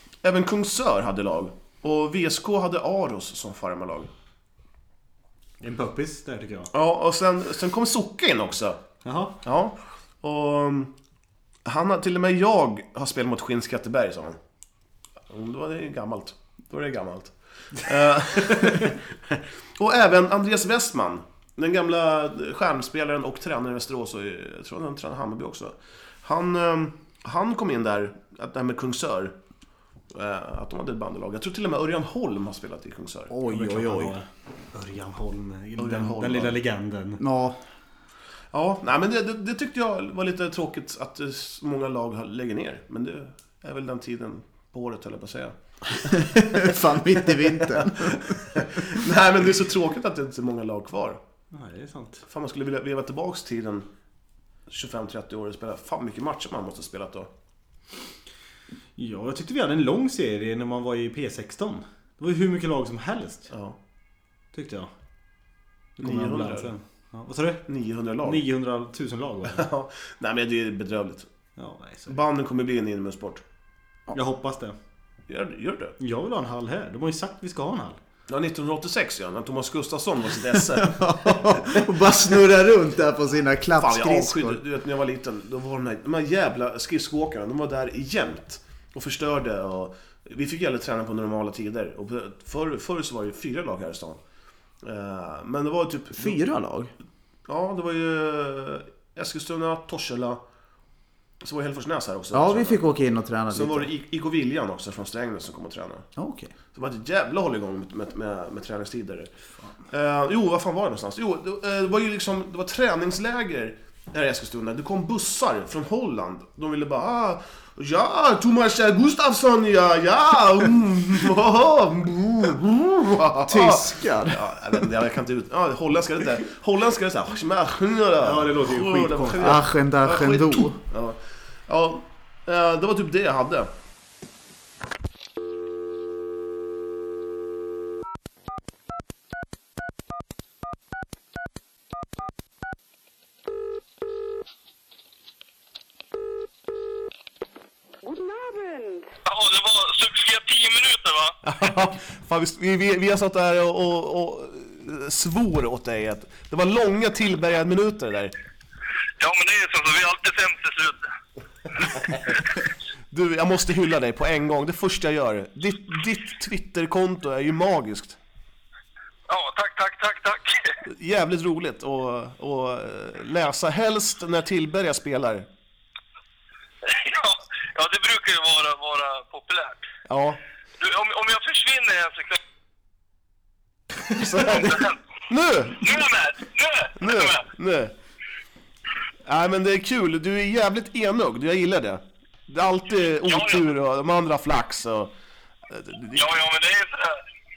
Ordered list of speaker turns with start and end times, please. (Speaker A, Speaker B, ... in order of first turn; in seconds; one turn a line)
Speaker A: 0.2-4.1
Speaker B: 5.6-6.7
Speaker A: 6.7-8.8
Speaker B: 9.0-9.4
Speaker A: 9.4-10.9
Speaker A: 11.6-14.4
Speaker A: 15.3-19.0
Speaker A: 19.8-29.3
Speaker A: 30.1-33.3
Speaker C: 33.3-34.1
Speaker B: 33.5-37.2
Speaker A: 35.8-36.6
Speaker C: 37.2-37.6
Speaker A: 38.5-46.6
Speaker C: 46.0-48.4
Speaker A: 48.5-51.2
Speaker B: 51.5-52.2
Speaker A: 52.3-53.9
Speaker A: 54.7-57.3
Speaker B: 59.0-63.5
Speaker A: 63.5-63.8
Speaker B: 64.5-64.9
Speaker B: 66.0-67.6
Speaker A: 66.0-66.7
Speaker A: 67.7-68.4
Speaker B: 68.2-69.7
Speaker A: 69.5-71.3
Speaker B: 71.6-72.2
Speaker A: 72.1-73.4
Speaker B: 74.1-74.8
Speaker A: 75.3-76.0
Speaker B: 76.0-78.0
Speaker A: 78.3-82.2
Speaker C: 80.5-84.6
Speaker A: 83.8-94.2
Speaker A: 94.8-96.4
Speaker C: 96.1-96.9
Speaker A: 97.5-100.4
Speaker A: 101.4-102.8
Speaker C: 102.3-103.9
Speaker A: 103.5-106.1
Speaker C: 106.2-106.5
Speaker A: 106.7-109.3
Speaker A: 109.9-133.7
Speaker C: 123.5-124.9
Speaker B: 128.2-129.6
Speaker C: 129.4-130.8
Speaker D: 149.2-151.3
Speaker A: 151.4-158.3
Speaker D: 159.2-161.1
Speaker A: 163.1-168.2
Speaker D: 169.3-170.8
Speaker A: 170.9-175.5
Speaker D: 176.8-179.9
Speaker A: 180.1-180.4
Speaker D: 180.8-182.4
Speaker A: 184.2-186.0
Speaker D: 184.2-185.0
Speaker D: 185.8-187.4
Speaker A: 187.0-187.9
Speaker A: 189.2-195.1
Speaker D: 193.2-193.7
Speaker A: 195.7-196.3
Speaker D: 196.1-197.2